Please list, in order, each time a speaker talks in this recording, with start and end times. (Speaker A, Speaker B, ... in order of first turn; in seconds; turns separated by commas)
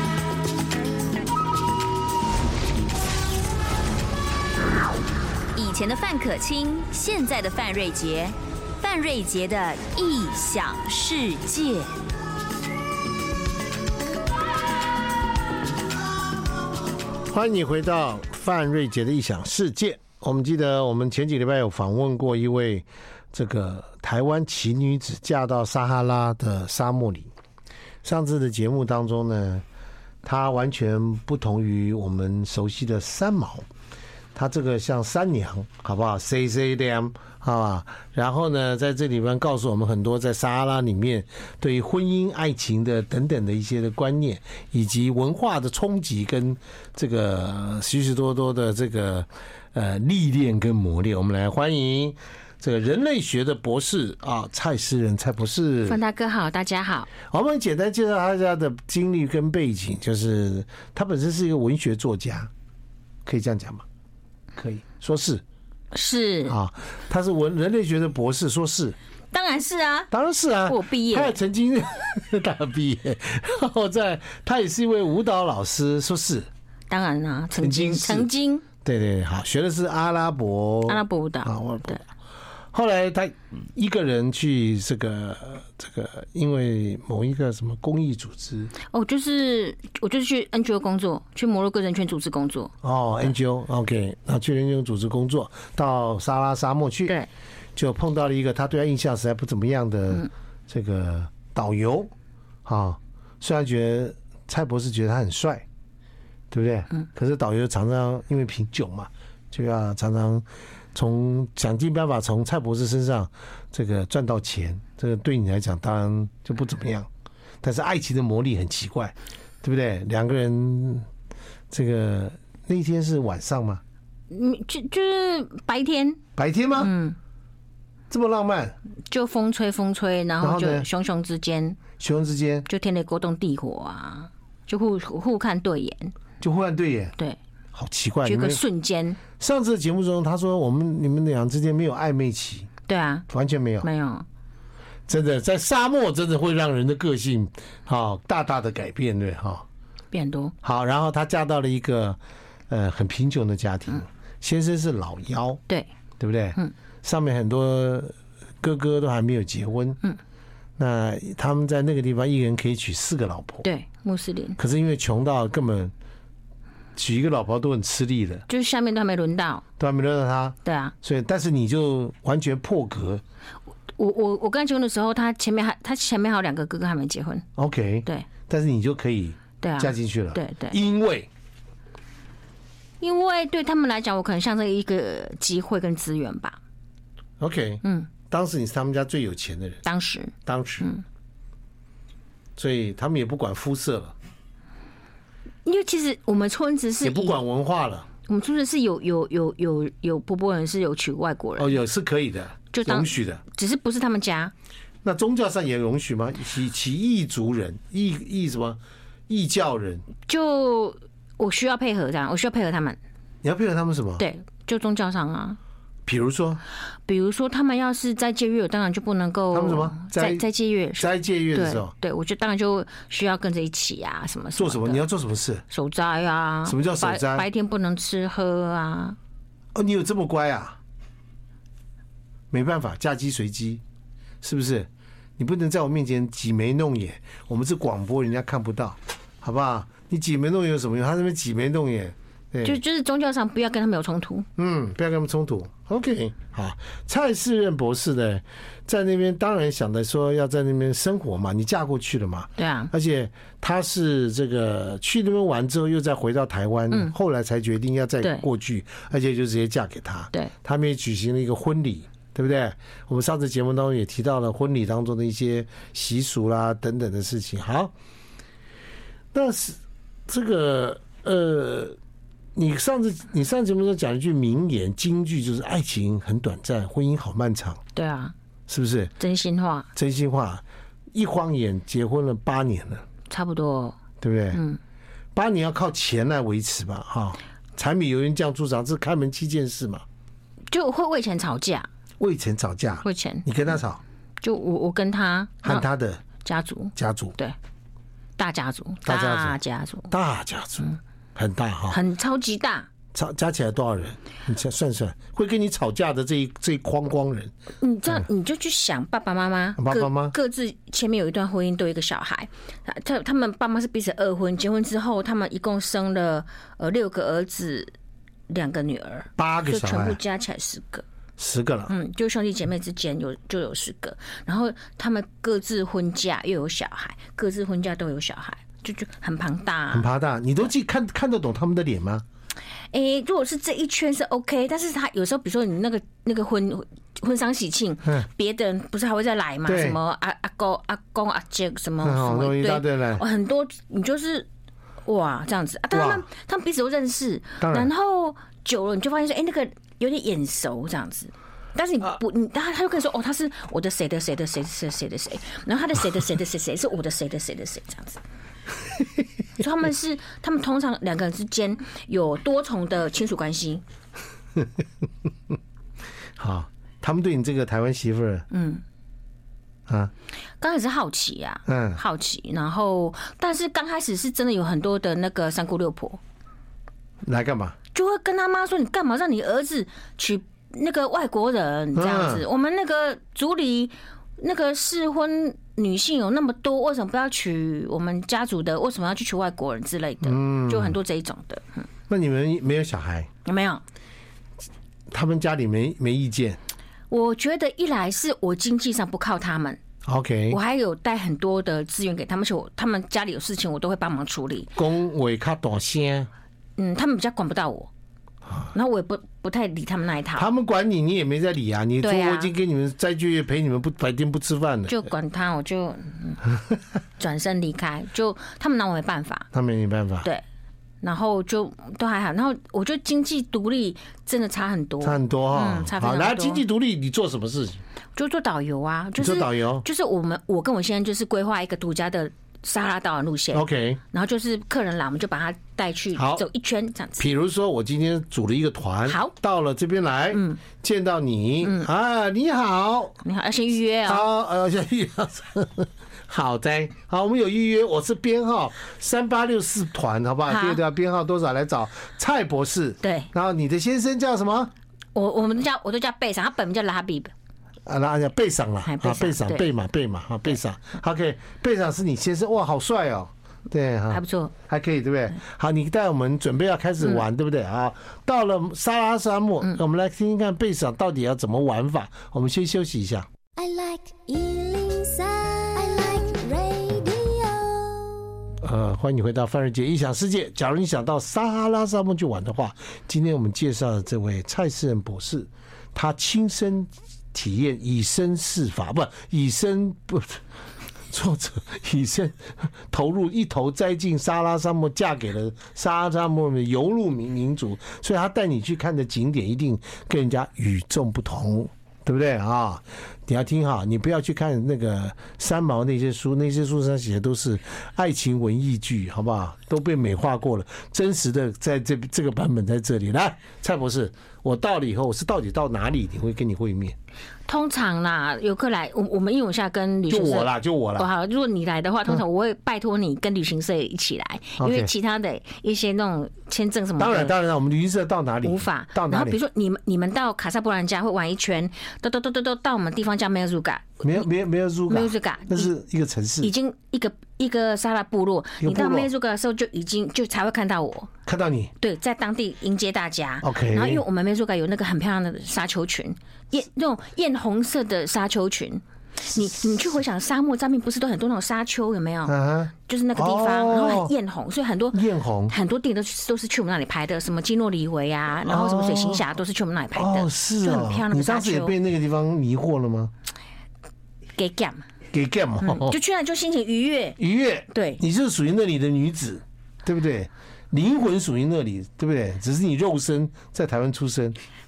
Speaker A: 5.5-11.9, Speaker B: 17.3-27.3, Speaker B: 28.0-29.6, Speaker B: 30.2-33.7, Speaker B: 34.3-56.0, Speaker C: 55.9-57.1, Speaker B: 57.3-62.5, Speaker B: 63.2-63.8, Speaker B: 64.5-65.4, Speaker C: 65.9-66.6, Speaker B: 66.5-69.0, Speaker C: 69.3-70.1, Speaker B: 70.1-76.5, Speaker C: 70.7-71.4, Speaker C: 76.9-78.6, Speaker B: 77.6-78.3, Speaker B: 78.8-82.0, Speaker C: 80.8-82.0, Speaker B: 82.7-88.7, Speaker C: 88.8-92.7, Speaker B: 92.8-97.1, Speaker B: 97.8-102.1, Speaker B: 102.6-105.6, Speaker B: 106.5-117.1, Speaker B: 117.6-121.1, Speaker B: 121.7-123.8, Speaker C: 124.3-126.2, Speaker B: 126.3-126.9, Speaker C: 126.8-127.2, Speaker B: 128.1-128.8, Speaker C: 129.1-131.8, Speaker B: 130.4-130.9, Speaker B: 132.0-132.7, Speaker C: 132.7-136.1, Speaker B: 136.4-137.1, Speaker B: 137.7-138.6, Speaker C: 138.2-139.2, Speaker B: 139.4-142.7, Speaker C: 142.9-143.2, Speaker B: 143.3-143.8, Speaker C: 143.8-144.2, Speaker B: 145.1-149.7, Speaker C: 150.1-150.5, Speaker B: 150.6-155.6, Speaker B: 156.2-160.0, Speaker B: 160.8-163.6, Speaker C: 163.6-164.6, Speaker B: 164.6-165.9, Speaker B: 166.9-168.4, Speaker C: 168.5-169.6, Speaker B: 169.8-173.2, Speaker C: 170.6-170.9, Speaker C: 174.0-177.4, Speaker B: 177.6-181.3, Speaker C: 179.6-180.8, Speaker C: 183.0-186.6, Speaker B: 187.4-189.8, Speaker C: 187.8-188.1, Speaker C: 189.8-191.0, Speaker B: 190.4-190.9, Speaker B: 192.6-194.1, Speaker C: 195.6-197.4, Speaker B: 197.0-198.1, Speaker C: 198.2-201.8, Speaker B: 201.6-203.4, Speaker C: 202.7-204.5, Speaker B: 205.0-210.1, Speaker C: 210.3-213.0, Speaker B: 213.4-214.2, Speaker C: 214.2-215.6, Speaker B: 216.0-216.6, Speaker C: 217.1-225.0, Speaker B: 219.5-220.4, Speaker B: 221.0-221.9, Speaker B: 224.6-225.6, Speaker C: 225.7-229.2, Speaker B: 226.7-227.4, Speaker B: 229.7-230.8, Speaker B: 232.5-233.8, Speaker B: 234.4-242.8, Speaker C: 242.6-244.5, Speaker B: 244.6-267.9, Speaker C: 252.6-252.9, Speaker C: 258.2-258.5, Speaker B: 269.3-272.0, Speaker B: 272.5-277.8, Speaker C: 277.9-278.3, Speaker B: 278.7-279.1, Speaker C: 279.2-279.9, Speaker B: 279.9-283.0, Speaker C: 283.3-284.0, Speaker B: 284.2-284.6, Speaker C: 284.5-284.8, Speaker B: 285.3-290.0, Speaker C: 290.7-291.9, Speaker B: 292.2-294.0, Speaker C: 293.0-293.5, Speaker C: 294.4-295.9, Speaker B: 295.6-296.2, Speaker C: 296.4-297.6, Speaker B: 296.9-297.4, Speaker C: 298.4-300.1, Speaker B: 299.0-299.6, Speaker B: 300.1-302.0, Speaker C: 301.9-302.9, Speaker B: 303.1-307.5, Speaker C: 307.8-317.9, Speaker B: 309.8-310.3, Speaker C: 318.5-321.0, Speaker B: 319.4-320.2, Speaker B: 321.4-321.9, Speaker C: 321.9-330.1, Speaker B: 329.9-332.2, Speaker C: 332.9-344.5, Speaker B: 339.6-340.0, Speaker B: 342.0-343.2, Speaker C: 345.0-358.2, Speaker B: 345.9-346.2, Speaker B: 347.6-347.9, Speaker C: 359.6-363.8, Speaker B: 366.4-368.5, Speaker C: 368.5-368.8, Speaker B: 369.9-370.1, Speaker C: 370.6-376.2, Speaker B: 371.7-372.0, Speaker B: 377.2-377.8, Speaker C: 377.9-391.8, Speaker B: 381.9-382.4, Speaker B: 390.2-391.0, Speaker B: 392.1-393.3, Speaker C: 393.4-393.8, Speaker B: 395.1-396.6, Speaker C: 397.1-399.8, Speaker B: 400.0-400.6, Speaker C: 400.5-404.7, Speaker B: 404.8-406.3, Speaker C: 406.8-407.9, Speaker C: 408.7-410.5, Speaker B: 410.4-415.0, Speaker C: 412.0-412.5, Speaker C: 414.9-416.4, Speaker C: 417.2-419.5, Speaker B: 419.5-420.3, Speaker C: 421.0-426.6, Speaker B: 425.0-427.8, Speaker C: 428.1-437.3, Speaker B: 429.2-429.9, Speaker B: 433.5-434.0, Speaker B: 436.1-436.4, Speaker B: 437.2-443.2, Speaker C: 439.1-439.3, Speaker C: 440.3-440.6, Speaker C: 441.6-441.9, Speaker C: 443.2-444.2, Speaker B: 444.0-454.7, Speaker C: 450.4-450.8, Speaker C: 453.0-453.3, Speaker C: 455.1-457.3, Speaker B: 457.9-473.3, Speaker C: 458.8-459.7, Speaker C: 464.1-464.5, Speaker D: 473.6-478.3, Speaker B: 478.6-490.4, Speaker B: 491.1-517.0, Speaker C: 517.5-527.3, Speaker B: 520.1-521.1, Speaker B: 524.6-524.9, Speaker B: 527.0-529.4, Speaker C: 528.4-534.3, Speaker B: 534.0-536.5, Speaker C: 534.9-535.7, Speaker C: 536.4-541.1, Speaker B: 538.6-539.1, Speaker B: 541.2-541.7, Speaker C: 541.8-561.7, Speaker B: 543.4-544.0, Speaker B: 552.3-554.1, Speaker B: 554.9-555.5, Speaker B: 558.4-559.2, Speaker B: 559.9-563.1, Speaker C: 564.4-564.8, Speaker B: 565.1-566.0, Speaker C: 565.6-567.2, Speaker B: 567.2-574.4, Speaker C: 567.7-568.0